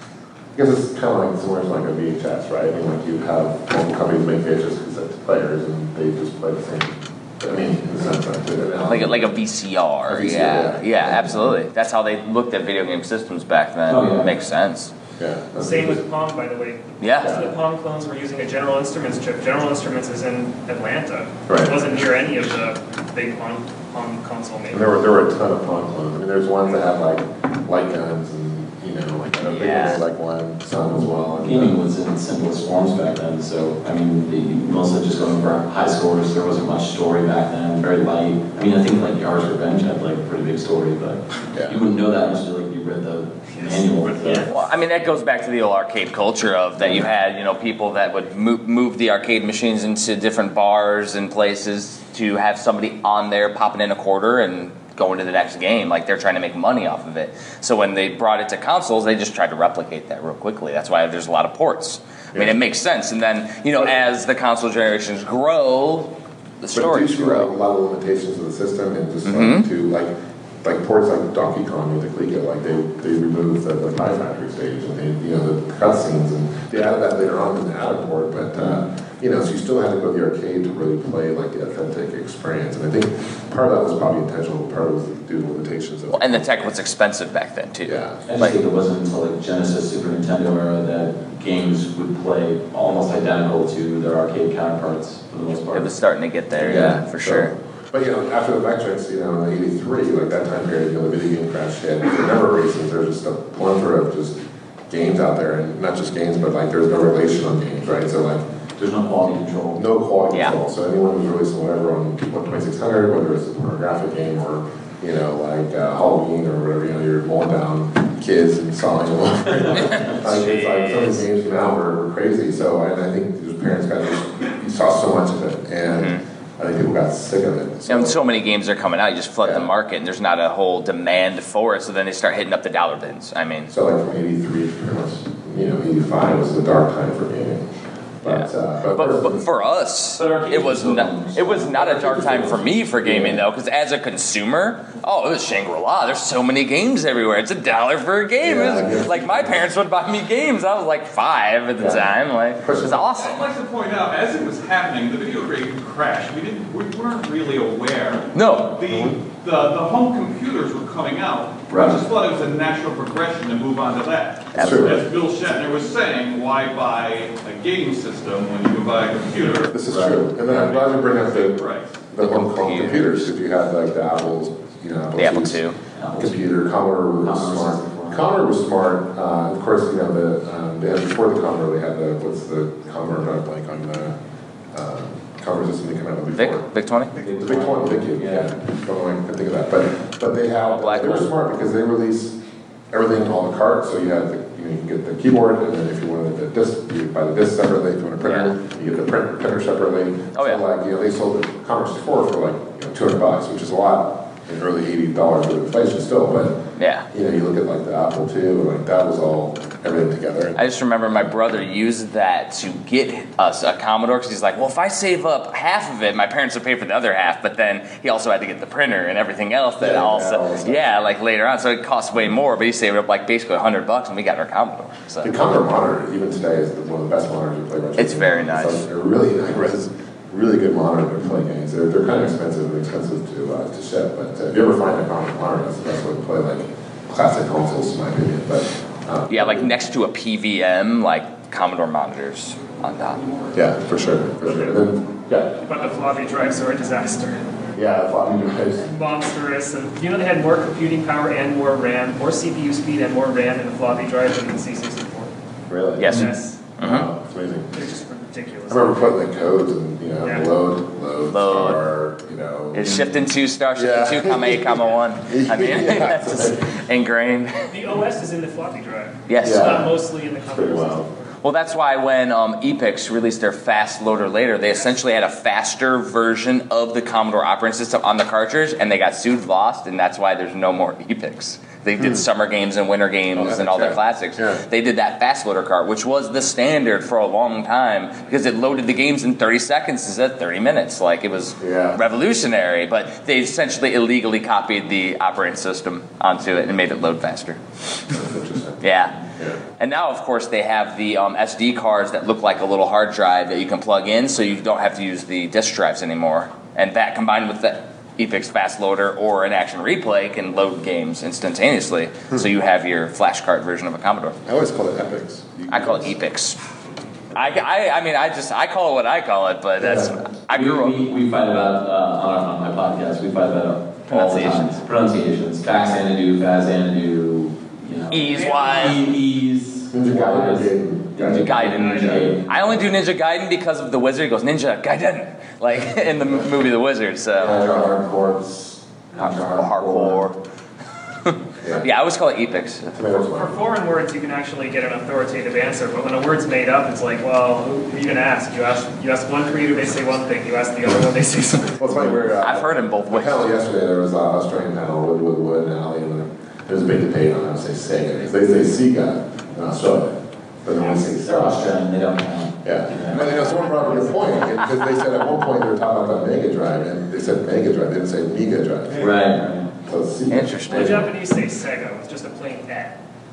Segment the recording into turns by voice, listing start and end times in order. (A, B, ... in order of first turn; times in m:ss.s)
0:00.5-0:09.3 A
0:08.9-0:14.9 B
0:10.1-0:11.6 A
0:13.9-0:14.3 C
0:15.2-0:16.0 A
0:15.6-0:24.8 D
0:17.0-0:17.4 B
0:21.5-0:21.8 A
0:24.7-0:31.7 A
0:29.4-0:30.0 B
0:31.4-0:44.5 C
0:41.5-0:41.8 A
0:44.2-1:07.5 B
0:46.8-0:47.1 C
1:06.7-1:26.5 A
1:09.2-1:09.6 B
1:26.1-1:28.6 B
1:27.8-1:28.2 A
1:28.3-1:35.9 C
1:35.7-1:37.5 B
1:36.6-1:37.0 C
1:37.2-1:44.4 A
1:44.9-1:48.4 A
1:48.8-1:49.8 C
1:49.7-2:08.2 A
1:59.7-2:01.2 B
2:05.9-2:06.2 B
2:07.9-2:13.7 B
2:09.4-2:09.7 A
2:13.7-2:17.7 A
2:18.2-2:19.4 A
2:18.2-2:33.4 B
2:20.2-2:22.6 C
2:23.0-2:23.4 A
2:28.4-2:29.7 A
2:32.6-2:33.0 A
2:33.2-2:49.8 E
2:38.3-2:38.8 B
2:38.9-2:39.2 A
2:41.7-2:42.0 C
2:44.5-2:45.0 B
2:44.6-2:45.0 A
2:49.7-2:55.6 A
2:49.9-2:50.2 C
2:51.0-2:51.9 E
2:52.2-2:53.2 B
2:55.2-2:55.8 B
2:56.0-2:56.4 C
2:56.2-3:04.2 A
2:57.2-2:58.2 C
3:04.7-3:06.6 A
3:06.3-3:07.1 B
3:07.2-3:08.5 C
3:07.2-3:12.4 A
3:10.7-3:11.2 B
3:12.9-3:26.6 A
3:18.2-3:18.5 B
3:20.3-3:20.6 B
3:26.8-3:27.1 B
3:27.1-3:30.6 A
3:30.6-3:45.3 B
3:39.8-3:40.8 A
3:45.2-3:59.7 A
3:48.0-3:48.8 B
3:59.3-4:03.2 B
4:03.5-4:05.5 A
4:05.6-4:07.5 D
4:07.7-4:08.9 A
4:08.9-4:15.3 D
4:15.7-4:16.1 A
4:16.0-4:17.1 B
4:16.1-4:16.6 D
4:16.8-4:17.7 A
4:17.7-4:19.0 D
4:18.7-4:23.2 A
4:21.3-4:21.8 B
4:22.7-4:27.7 B
4:23.7-4:26.8 A
4:27.7-4:31.1 D
4:29.3-4:29.8 B
4:29.4-4:29.9 A
4:30.5-4:31.0 A
4:31.4-4:57.6 B
4:42.0-4:42.2 A
4:43.3-4:44.6 A
4:51.6-4:52.0 A
4:58.1-4:59.6 A
4:58.8-4:59.2 B
4:59.8-5:14.4 B
5:14.4-5:16.1 A
5:15.7-5:16.6 B
5:17.3-5:21.0 B
5:19.8-5:20.2 A
5:20.5-5:32.5 C
5:24.1-5:24.8 B
5:28.1-5:29.0 B
5:28.4-5:28.7 D
5:29.9-5:32.3 A
5:31.3-5:37.7 B
5:31.8-5:32.2 D
5:37.4-5:40.3 A
5:39.2-5:39.5 C
5:39.5-5:40.3 B
5:41.2-5:42.9 B
5:41.6-5:41.9 A
5:42.9-5:43.6 A
5:43.3-5:51.9 D
5:51.8-6:01.8 A
5:52.4-5:53.5 B
6:00.8-6:04.2 C
6:02.6-6:09.2 A
6:09.0-6:09.7 C
6:09.8-6:11.1 A
6:10.3-6:11.1 B
6:10.7-6:13.0 D